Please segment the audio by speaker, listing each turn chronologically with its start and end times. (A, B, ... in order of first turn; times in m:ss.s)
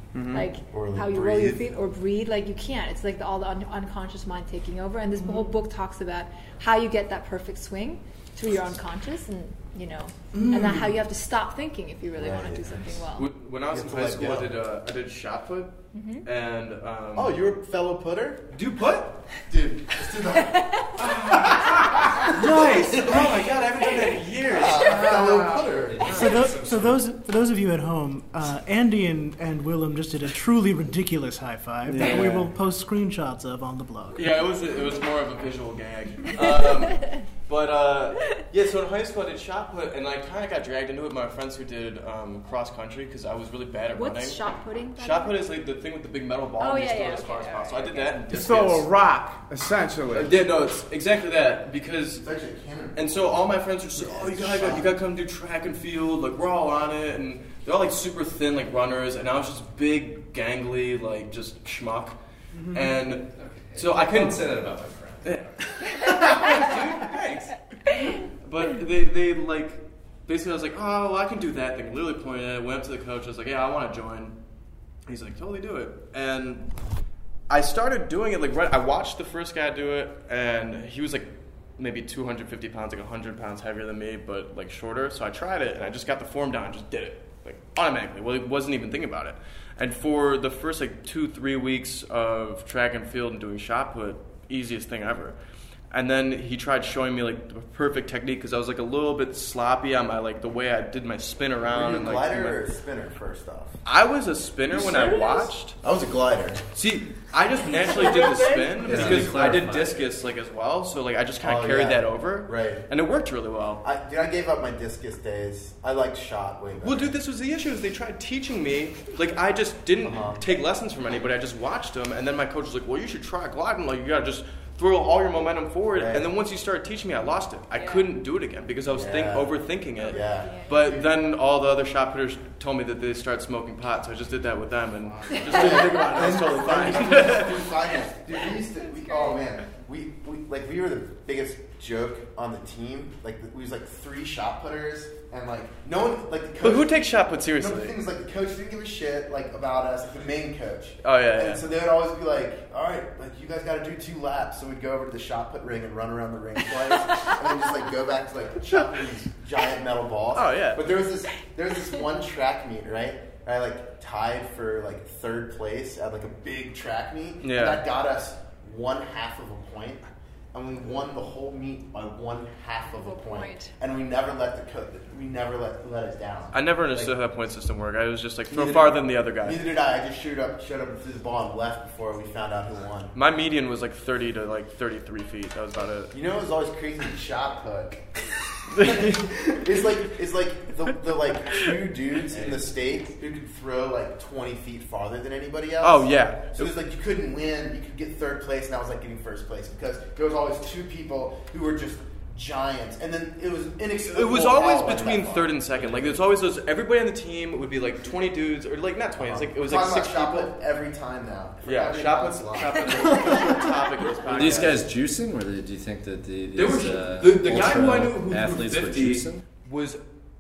0:00.1-0:00.4 A
0:00.3-0:13.3 B
0:00.7-0:01.6 C
0:10.4-0:10.9 D
0:12.2-0:13.0 C
0:13.2-0:17.4 E
0:13.7-0:14.6 C
0:15.9-0:16.2 B
0:17.2-0:18.5 C
0:18.5-0:19.2 E
0:19.5-0:21.1 C
0:20.4-0:20.9 B
0:21.0-0:25.3 E
0:22.5-0:23.3 C
0:24.5-0:26.2 C
0:25.7-0:27.0 F
0:26.1-0:34.3 D
0:31.9-0:32.3 A
0:31.9-0:32.4 E
0:34.1-0:44.4 E
0:43.9-0:45.5 B
0:45.0-0:48.9 E
0:46.6-0:48.2 B
0:48.3-0:50.3 A
0:50.1-0:52.2 E
0:52.2-0:53.1 C
0:53.0-1:02.2 E
0:54.0-0:54.9 C
1:02.5-1:03.0 D
1:02.7-1:04.6 E
1:03.4-1:05.5 F
1:05.2-1:07.6 E
1:08.3-1:14.4 E
1:15.1-1:16.7 E
1:17.5-1:35.4 E
1:35.9-1:42.6 E
1:41.6-1:43.8 C
1:43.8-1:45.8 E
1:44.7-1:45.5 D
1:45.8-1:46.6 C
1:46.7-1:53.8 E
1:47.7-1:48.8 D
1:48.7-1:50.1 F
1:48.9-1:49.4 C
1:51.4-1:52.9 C
1:53.8-1:57.2 C
1:56.8-2:17.7 E
2:00.0-2:00.4 C
2:06.0-2:06.3 C
2:07.8-2:08.1 B
2:08.9-2:11.1 C
2:10.0-2:10.8 B
2:15.3-2:15.9 B
2:15.4-2:57.1 C
2:18.8-2:19.4 B
2:26.6-2:28.0 E
2:31.0-2:31.6 E
2:40.3-2:40.9 E
2:47.4-2:47.8 E
2:52.9-2:53.7 B
2:56.5-2:59.7 E
2:58.5-3:03.1 C
3:03.1-3:06.2 E
3:06.1-3:26.1 C
3:08.8-3:09.2 E
3:12.3-3:12.7 F
3:15.8-3:16.8 E
3:24.1-3:30.5 E
3:29.2-3:33.6 C
3:31.6-3:34.9 E
3:34.3-3:39.4 F
3:36.6-3:40.0 E